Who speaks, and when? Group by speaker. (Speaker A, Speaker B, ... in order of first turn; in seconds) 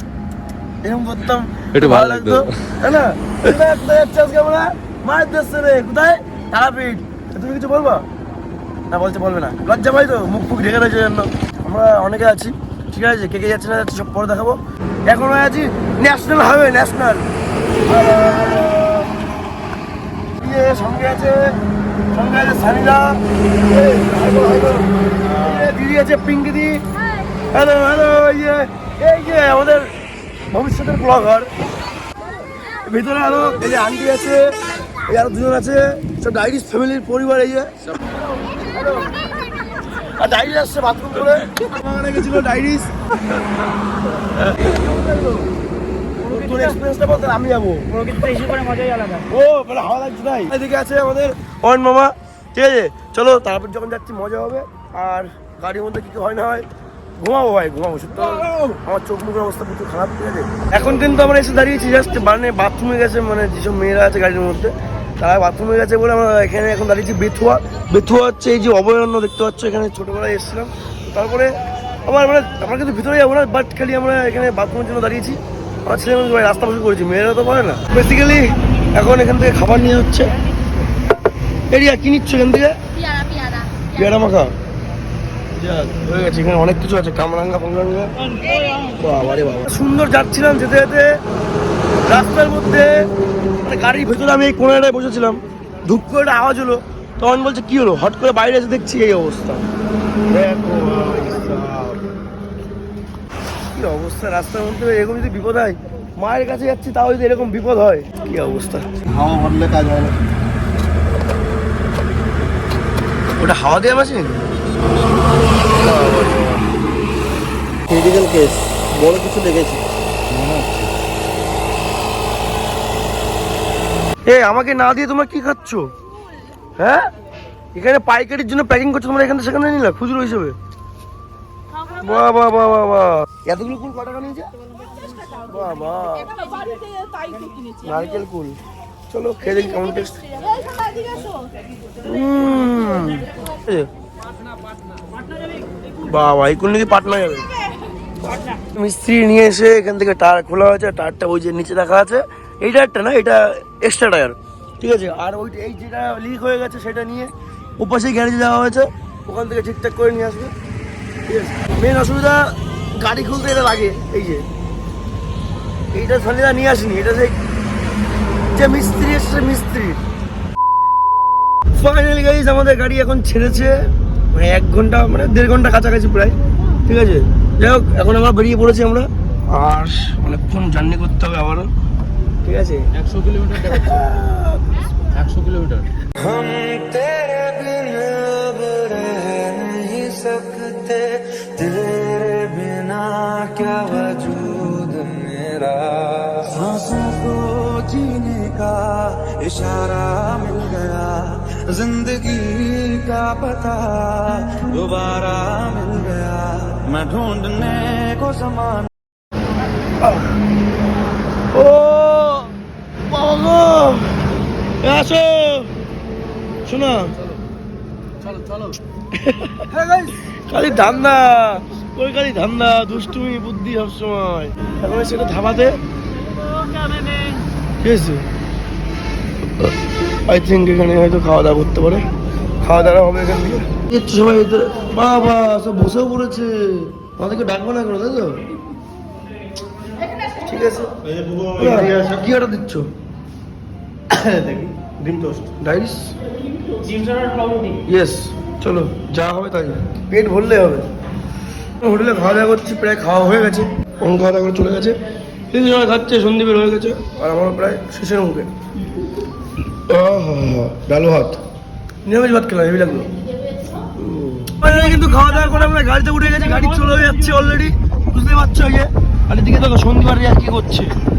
Speaker A: 0.8-8.1, 8.9-17.3, 17.9-19.1, 20.4-21.6, 22.1-26.9, 27.5-29.9, 30.5-31.5, 32.8-39.1, 39.9-43.5, 44.0-45.5, 46.2-48.4, 49.2-56.7, 57.2-71.5, 72.1-80.3, 81.7-82.8, 83.8-84.5, 85.6-88.1, 88.8-91.2, 92.1-93.1, 93.6-99.7, 100.3-101.6, 103.7-109.0, 113.4-114.4, 115.8-116.6, 124.3-125.9, 126.8-127.1, 127.7-130.6, 132.0-134.5, 135.4-136.5, 137.8-138.6, 139.1-140.2, 142.0-143.9, 146.0-147.5, 148.6-160.5, 161.3-164.4, 165.9-167.3, 168.5-170.0, 171.7-181.7, 182.4-184.6, 210.0-210.3, 211.5-212.5, 213.1-214.1, 214.8-215.7, 216.7-217.2, 219.1-225.8, 227.8-228.2, 230.3-232.1, 232.6-238.4, 240.4-240.9, 241.6-242.9, 245.6-246.1, 247.7-250.9, 251.8-255.0, 255.5-258.5, 259.9-261.4, 262.0-263.1, 263.9-271.0
Speaker B: 1.8-2.5, 120.3-120.9, 186.2-208.9
Speaker C: 46.3-46.6, 48.0-49.2, 83.0-83.9
Speaker D: 101.6-101.9, 109.1-110.3, 117.9-119.8, 241.1-242.2, 244.1-245.5